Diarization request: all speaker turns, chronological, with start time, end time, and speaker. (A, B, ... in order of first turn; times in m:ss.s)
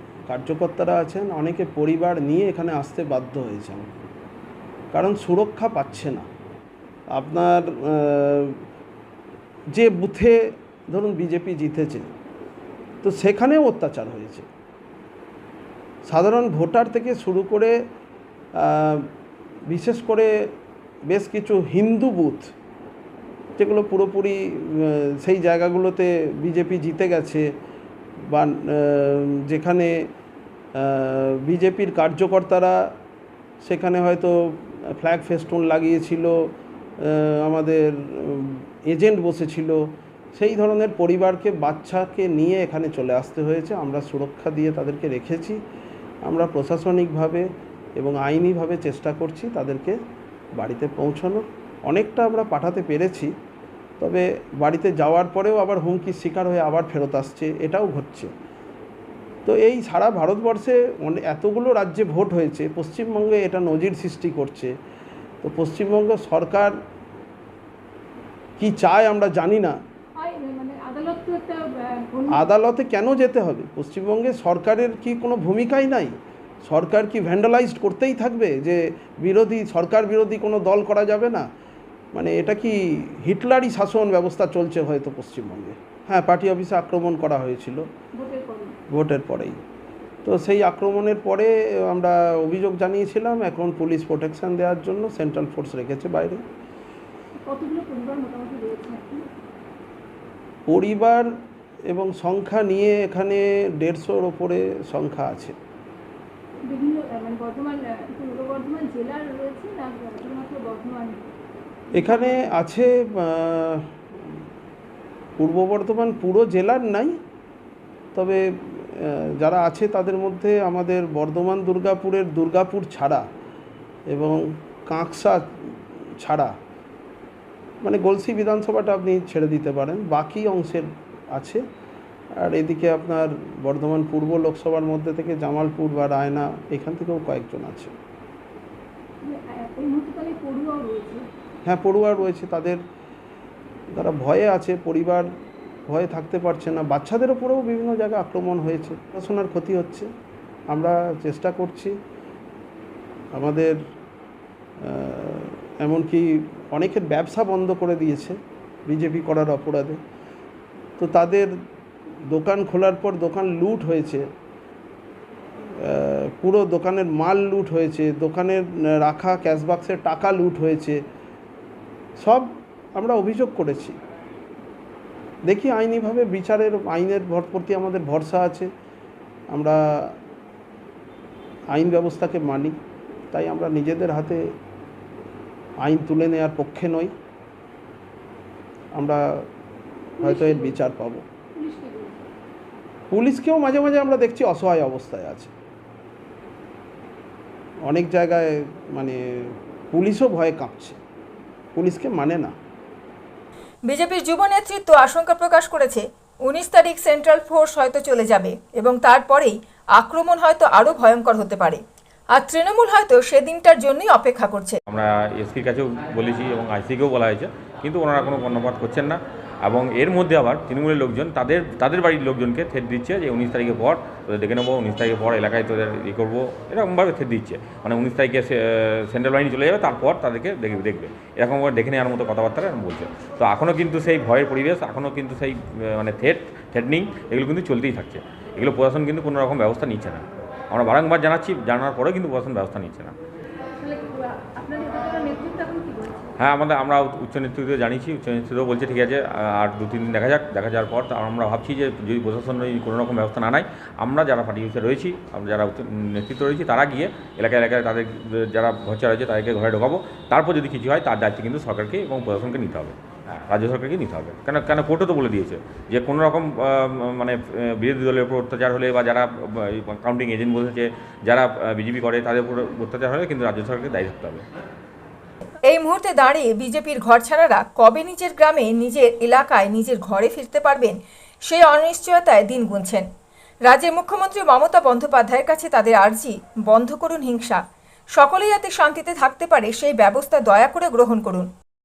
0:00.3-0:03.9 A
0:04.9-0:06.3 A
0:07.1-0:08.6 A
0:09.8-0:10.3 A
0:10.9-0:12.1 A
0:13.0-0:14.5 A
0:16.0-0:17.8 A
0:18.6-0:19.1 A
0:19.7-0:20.3 A
0:21.1-0:22.5 A
0:23.6-0:27.4 A
0:28.3-0:29.9 A
0:30.8-0:32.8 A
0:33.6-0:36.3 A
0:37.0-0:39.8 A
0:40.3-0:45.6 A
0:46.2-0:47.4 A
0:48.0-0:50.0 A
0:50.6-0:53.3 A
0:54.0-0:58.3 A
0:59.4-1:04.7 A
1:05.4-1:06.7 A
1:08.6-1:09.8 A
1:10.2-1:12.5 B
1:12.3-1:21.5 A
1:22.1-1:27.8 A
1:28.1-1:28.8 B
1:28.9-1:29.6 A
1:30.2-1:36.4 A
1:37.4-1:39.3 B
1:40.7-1:41.2 A
1:41.9-1:45.6 A
1:46.7-1:51.3 B
1:51.9-1:53.8 A
1:51.9-1:52.3 B
1:55.4-1:57.2 A
1:58.2-2:03.2 A
2:04.1-2:06.5 A
2:07.8-2:11.6 A
2:12.4-2:17.9 A
2:19.2-2:21.2 B
2:21.6-2:22.8 A
2:23.9-2:25.2 A
2:25.9-2:30.1 A
2:30.7-2:32.0 A
2:33.3-2:33.8 A
2:34.8-2:40.0 A
2:41.0-2:41.5 A
2:42.3-2:44.2 A
2:45.8-2:51.0 A
2:52.2-2:54.0 A
2:55.5-2:58.7 A
2:59.5-3:00.1 A
3:01.7-3:02.8 A
3:03.3-3:04.4 A
3:05.8-3:07.1 A
3:10.2-3:11.2 A
3:10.2-3:10.8 B
3:11.5-3:12.2 B
3:13.1-3:15.5 A
3:17.9-3:21.0 A
3:21.7-3:22.5 A
3:23.8-3:31.8 C
3:32.3-3:34.8 C
3:34.9-4:03.2 D
4:03.8-4:06.3 B
4:06.4-4:34.4 D
4:35.6-4:43.1 C
4:43.7-4:47.6 C
4:48.2-4:51.5 C